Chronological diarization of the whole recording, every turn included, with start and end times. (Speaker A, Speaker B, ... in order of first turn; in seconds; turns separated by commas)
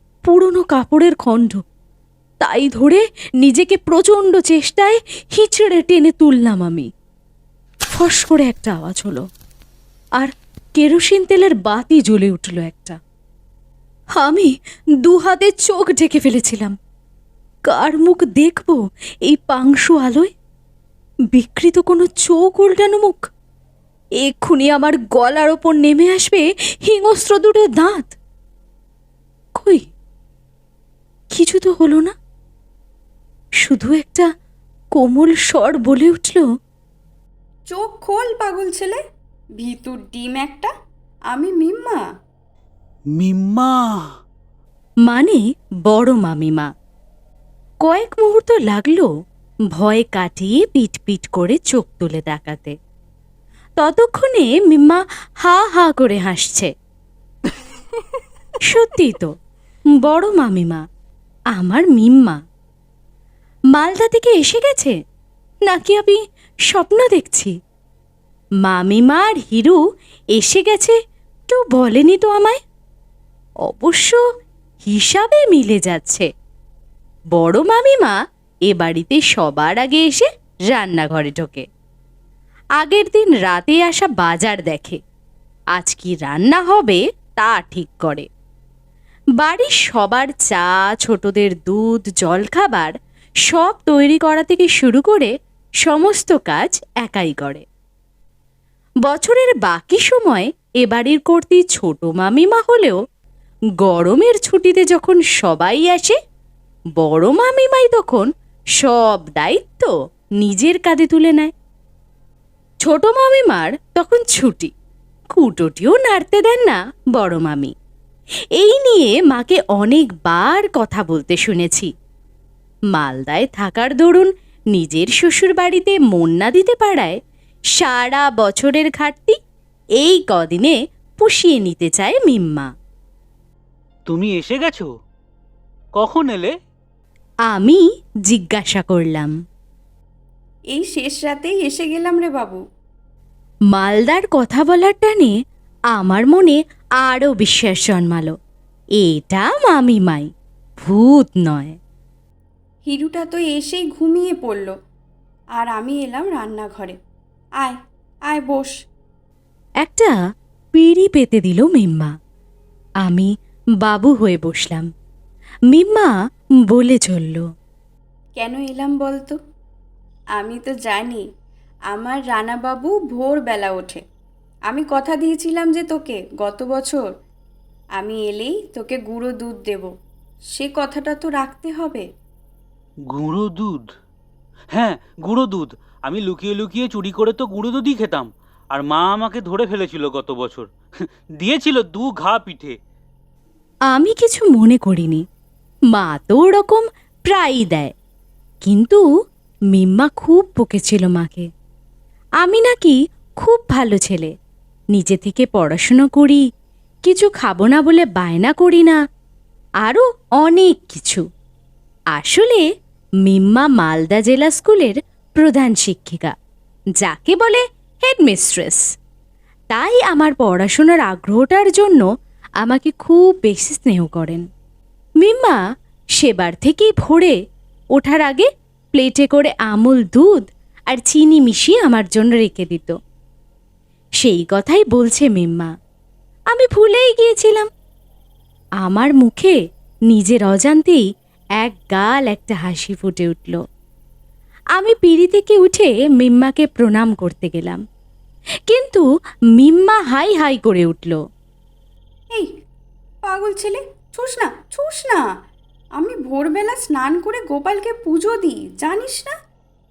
Speaker A: 0.2-1.6, Speaker A: 2.4-6.9, Speaker A: 7.9-9.3, Speaker A: 10.2-13.0, Speaker A: 14.2-16.8, Speaker A: 17.7-20.3, Speaker A: 21.3-23.3, Speaker A: 24.2-28.2, Speaker A: 29.6-29.9, Speaker A: 31.3-32.1, Speaker A: 33.6-34.3, Speaker A: 34.9-36.5, Speaker B: 37.7-39.0, Speaker B: 39.6-40.7, Speaker B: 41.3-42.0, Speaker C: 43.2-43.8, Speaker A: 45.0-46.7, Speaker A: 47.8-49.1, Speaker A: 49.7-52.8, Speaker A: 53.8-56.7, Speaker A: 58.6-59.3, Speaker A: 60.0-60.8, Speaker A: 61.5-62.4, Speaker A: 63.7-65.0, Speaker A: 65.7-67.5, Speaker A: 68.6-69.8, Speaker A: 70.3-71.0, Speaker A: 71.5-72.6, Speaker A: 73.6-74.2, Speaker A: 74.8-76.3, Speaker A: 77.3-81.7, Speaker A: 82.8-85.0, Speaker A: 85.7-88.3, Speaker A: 89.4-97.7, Speaker A: 99.0-103.0, Speaker A: 103.8-106.2, Speaker A: 107.0-111.5, Speaker A: 112.8-114.7, Speaker A: 115.3-117.7, Speaker A: 118.5-121.9, Speaker A: 122.9-127.2, Speaker A: 127.7-129.4, Speaker A: 130.0-132.7, Speaker C: 134.1-134.9, Speaker C: 136.0-136.5, Speaker A: 137.5-139.3, Speaker B: 140.7-142.6, Speaker A: 143.7-145.3, Speaker A: 145.9-148.3, Speaker A: 149.0-150.3, Speaker A: 150.8-151.8, Speaker B: 152.8-154.7, Speaker B: 155.6-157.0, Speaker B: 157.6-158.7, Speaker A: 159.8-160.2, Speaker A: 160.7-162.1, Speaker A: 163.0-164.9, Speaker A: 165.7-167.4, Speaker B: 168.4-169.4, Speaker B: 170.4-171.2, Speaker B: 171.9-174.0, Speaker B: 174.7-177.1, Speaker B: 178.0-179.9, Speaker B: 180.5-182.1, Speaker C: 183.1-183.8, Speaker C: 184.7-190.7, Speaker C: 191.4-192.8, Speaker A: 193.9-195.2, Speaker A: 195.9-197.9, Speaker A: 198.6-199.0, Speaker A: 199.7-201.5, Speaker A: 202.4-204.3, Speaker A: 204.9-206.4, Speaker A: 207.0-209.0, Speaker A: 209.8-211.2, Speaker A: 212.1-212.7, Speaker A: 213.2-216.3, Speaker A: 217.0-218.8, Speaker A: 219.7-222.1, Speaker A: 222.6-224.4, Speaker A: 225.2-225.6, Speaker A: 226.2-227.4, Speaker A: 227.9-233.0, Speaker A: 234.2-235.7, Speaker A: 236.5-237.7, Speaker A: 238.8-239.6, Speaker A: 240.1-241.1, Speaker A: 241.6-243.6, Speaker A: 244.7-247.8, Speaker A: 248.7-249.0, Speaker A: 249.6-251.2, Speaker B: 253.2-255.3, Speaker B: 256.0-259.4